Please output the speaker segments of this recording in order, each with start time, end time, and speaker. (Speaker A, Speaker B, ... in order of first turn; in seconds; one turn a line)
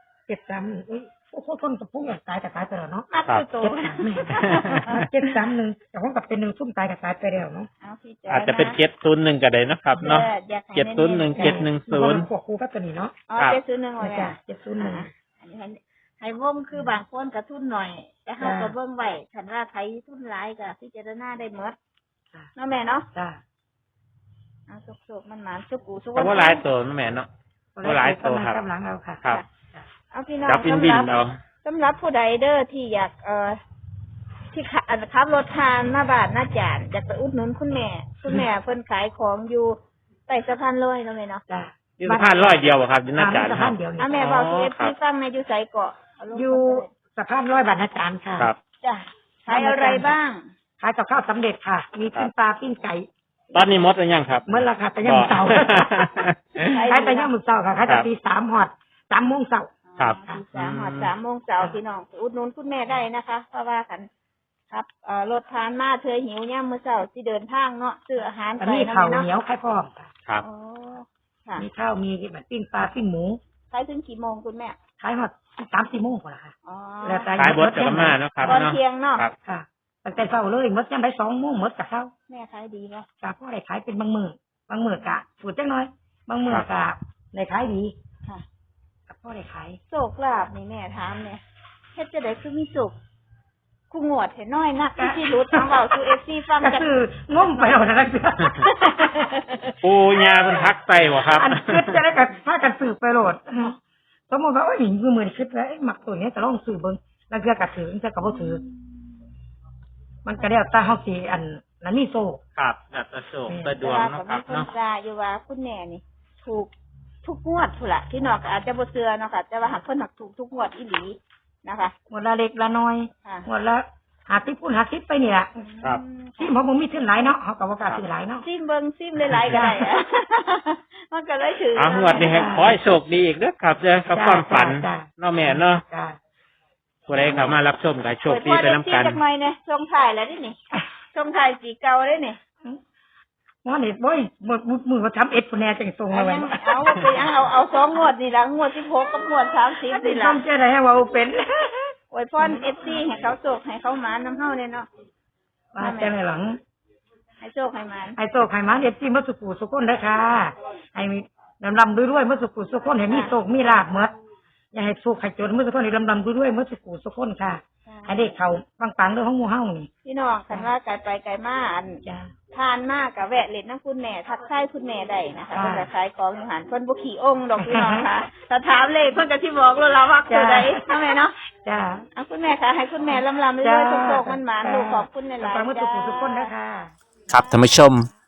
Speaker A: 0.3-7.7
Speaker B: 3.1-5.0
Speaker C: 4.4-4.9
Speaker B: 7.8-8.8
Speaker C: 8.3-12.3
Speaker B: 10.0-11.6
Speaker A: 11.3-13.1
Speaker B: 13.3-21.8
Speaker A: 14.0-15.1
Speaker A: 18.4-18.8
Speaker B: 22.6-23.1
Speaker A: 23.1-23.4
Speaker B: 24.7-26.6
Speaker C: 26.1-27.3
Speaker A: 27.7-29.9
Speaker C: 27.8-28.6
Speaker B: 30.1-33.6
Speaker C: 30.4-31.4
Speaker B: 34.5-41.4
Speaker A: 38.2-38.5
Speaker A: 41.5-44.3
Speaker C: 42.0-44.9
Speaker B: 44.0-46.9
Speaker A: 46.3-48.5
Speaker B: 48.8-50.4
Speaker A: 49.5-50.1
Speaker A: 50.8-53.0
Speaker C: 53.5-54.5
Speaker A: 54.5-56.0
Speaker C: 55.0-56.7
Speaker B: 56.6-57.3
Speaker A: 56.8-60.4
Speaker B: 59.9-64.1
Speaker C: 60.0-61.1
Speaker B: 64.7-69.3
Speaker A: 68.6-70.1
Speaker B: 70.4-71.7
Speaker A: 71.5-73.4
Speaker B: 73.7-74.8
Speaker A: 75.0-78.6
Speaker B: 76.6-77.5
Speaker C: 77.3-79.3
Speaker B: 78.4-79.2
Speaker A: 79.4-82.1
Speaker B: 82.3-83.1
Speaker A: 83.2-87.9
Speaker A: 89.1-89.8
Speaker B: 89.9-91.4
Speaker B: 92.0-93.0
Speaker B: 93.9-96.9
Speaker A: 95.0-95.9
Speaker A: 96.6-99.1
Speaker B: 98.6-99.7
Speaker C: 99.8-102.0
Speaker A: 101.2-103.8
Speaker A: 104.3-108.6
Speaker B: 108.2-108.8
Speaker A: 110.2-112.4
Speaker C: 112.5-114.7
Speaker A: 113.5-113.8
Speaker B: 113.8-116.7
Speaker B: 117.2-121.9
Speaker A: 122.1-125.7
Speaker B: 125.6-126.5
Speaker A: 126.4-128.4
Speaker B: 128.4-132.5
Speaker C: 129.3-129.7
Speaker A: 129.3-130.0
Speaker C: 131.8-135.8
Speaker A: 132.1-132.8
Speaker A: 134.1-136.2
Speaker C: 137.1-139.2
Speaker B: 138.2-140.6
Speaker B: 141.1-142.4
Speaker A: 143.6-147.3
Speaker B: 146.1-150.4
Speaker A: 149.7-152.9
Speaker B: 152.1-154.9
Speaker A: 155.7-156.6
Speaker B: 155.8-156.1
Speaker B: 157.4-158.2
Speaker A: 158.2-164.1
Speaker B: 163.1-163.3
Speaker A: 164.7-169.9
Speaker B: 167.8-168.3
Speaker B: 170.0-181.4
Speaker A: 172.0-172.3
Speaker A: 175.5-175.9
Speaker A: 177.5-178.1
Speaker A: 180.3-182.1
Speaker B: 182.1-186.5
Speaker A: 183.6-186.9
Speaker C: 187.3-188.1